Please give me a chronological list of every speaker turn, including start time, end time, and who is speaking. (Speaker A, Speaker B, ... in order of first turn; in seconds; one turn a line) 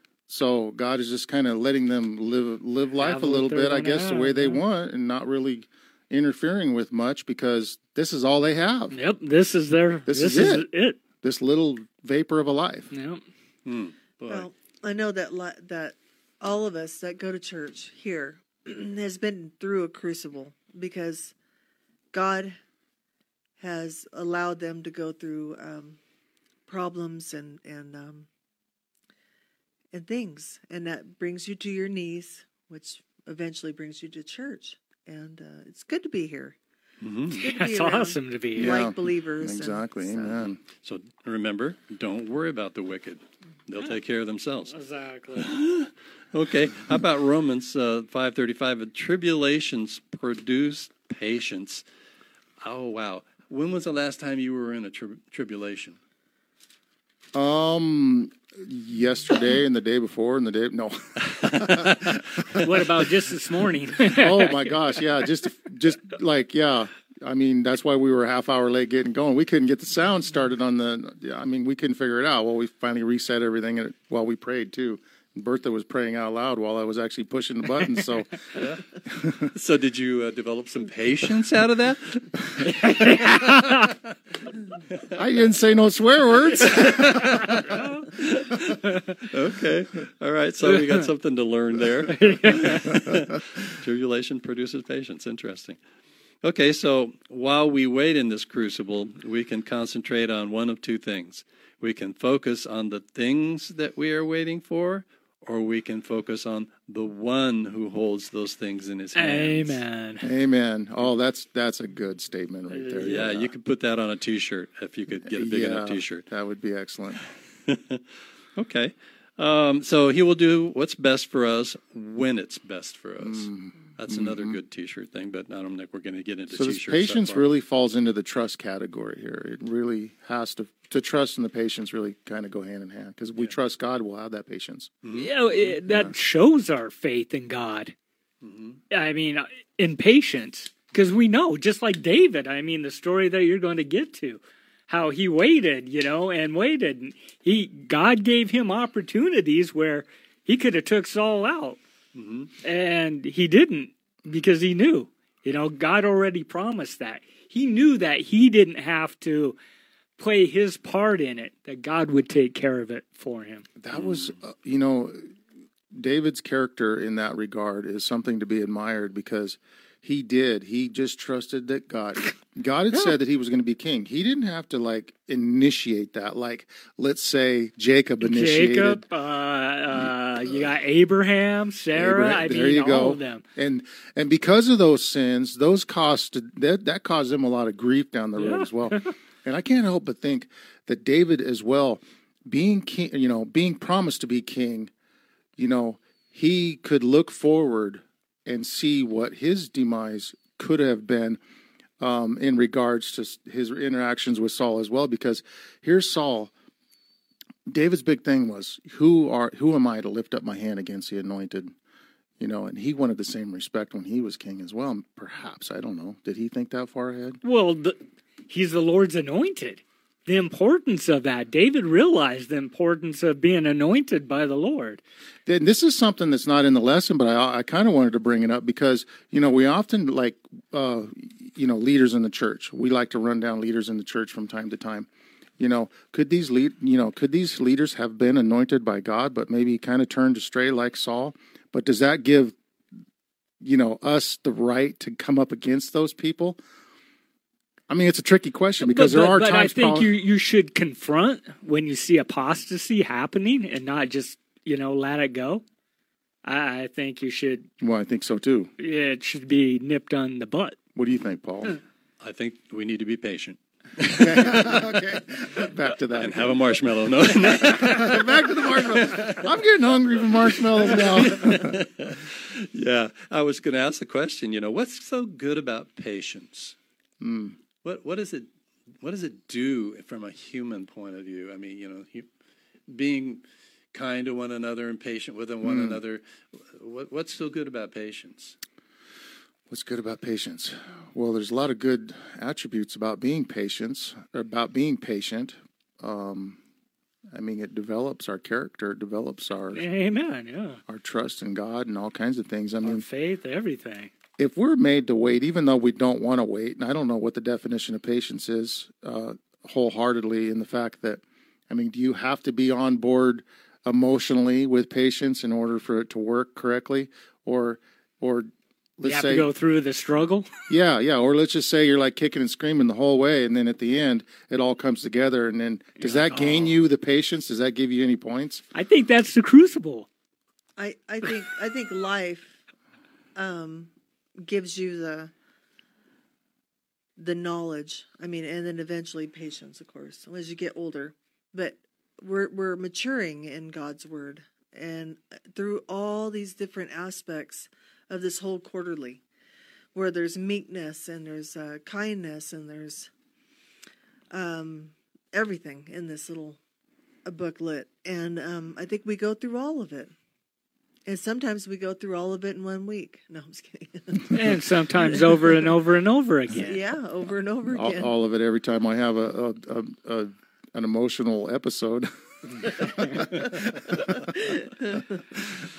Speaker A: 0.3-8.9
Speaker B: 3.0-4.6
Speaker B: 8.9-11.0
Speaker A: 10.1-10.7
Speaker A: 11.2-12.9
Speaker B: 12.9-13.2
Speaker C: 13.6-14.5
Speaker D: 14.3-21.3
Speaker D: 22.1-22.6
Speaker D: 23.6-26.0
Speaker D: 26.7-28.3
Speaker D: 29.9-36.5
Speaker C: 37.0-37.5
Speaker D: 37.3-40.4
Speaker B: 37.4-38.8
Speaker A: 38.6-40.6
Speaker C: 40.5-44.8
Speaker B: 44.7-45.5
Speaker C: 45.3-51.8
Speaker C: 52.6-56.0
Speaker A: 57.3-62.8
Speaker C: 61.4-62.2
Speaker B: 62.6-64.7
Speaker A: 64.0-78.5
Speaker C: 78.5-78.8
Speaker A: 79.0-79.5
Speaker C: 79.5-84.1
Speaker B: 82.8-83.9
Speaker A: 85.1-87.2
Speaker C: 86.4-95.8
Speaker B: 87.7-88.1
Speaker B: 92.1-93.0
Speaker C: 96.4-109.8
Speaker B: 109.1-110.2
Speaker A: 110.2-113.5
Speaker B: 112.7-113.2
Speaker C: 113.0-116.2
Speaker A: 115.3-117.2
Speaker C: 117.7-127.5
Speaker A: 123.2-124.6
Speaker A: 126.5-134.9
Speaker C: 135.0-135.3
Speaker B: 135.1-137.9
Speaker A: 135.8-136.1
Speaker C: 138.4-138.8
Speaker B: 138.9-151.8
Speaker C: 152.1-152.5
Speaker B: 152.6-159.6
Speaker B: 160.2-163.7
Speaker A: 163.8-165.3
Speaker C: 163.9-164.3
Speaker A: 165.9-179.0
Speaker B: 178.2-183.4
Speaker A: 181.9-194.9
Speaker B: 188.4-189.1
Speaker A: 195.6-201.4
Speaker A: 202.0-206.5
Speaker A: 207.7-211.7
Speaker A: 212.4-217.4
Speaker B: 217.4-225.0
Speaker A: 225.4-235.1
Speaker A: 235.6-242.6
Speaker A: 243.6-246.6
Speaker A: 247.9-250.1
Speaker B: 248.8-255.6
Speaker B: 256.4-257.7
Speaker A: 257.8-258.7
Speaker B: 258.8-260.8
Speaker A: 260.9-261.8
Speaker C: 262.2-265.0
Speaker A: 264.1-266.6
Speaker C: 266.2-269.5
Speaker A: 267.4-271.8
Speaker C: 270.5-276.8
Speaker A: 277.2-277.6
Speaker C: 277.8-278.5
Speaker C: 279.0-282.3
Speaker C: 282.9-288.6
Speaker A: 285.6-286.0
Speaker A: 289.7-296.6
Speaker A: 297.3-299.8
Speaker B: 299.7-300.8
Speaker A: 300.9-303.0
Speaker B: 302.8-304.1
Speaker A: 304.4-319.5
Speaker B: 319.1-320.5
Speaker A: 320.7-328.6
Speaker B: 326.0-326.8
Speaker B: 328.7-330.1
Speaker D: 330.8-332.6
Speaker D: 333.3-335.3
Speaker D: 337.2-349.2
Speaker D: 349.9-353.1
Speaker D: 354.3-356.6
Speaker D: 357.2-360.1
Speaker D: 361.1-365.8
Speaker B: 364.3-366.8
Speaker D: 366.5-368.1
Speaker A: 367.7-374.3
Speaker C: 373.4-374.0
Speaker A: 375.4-375.6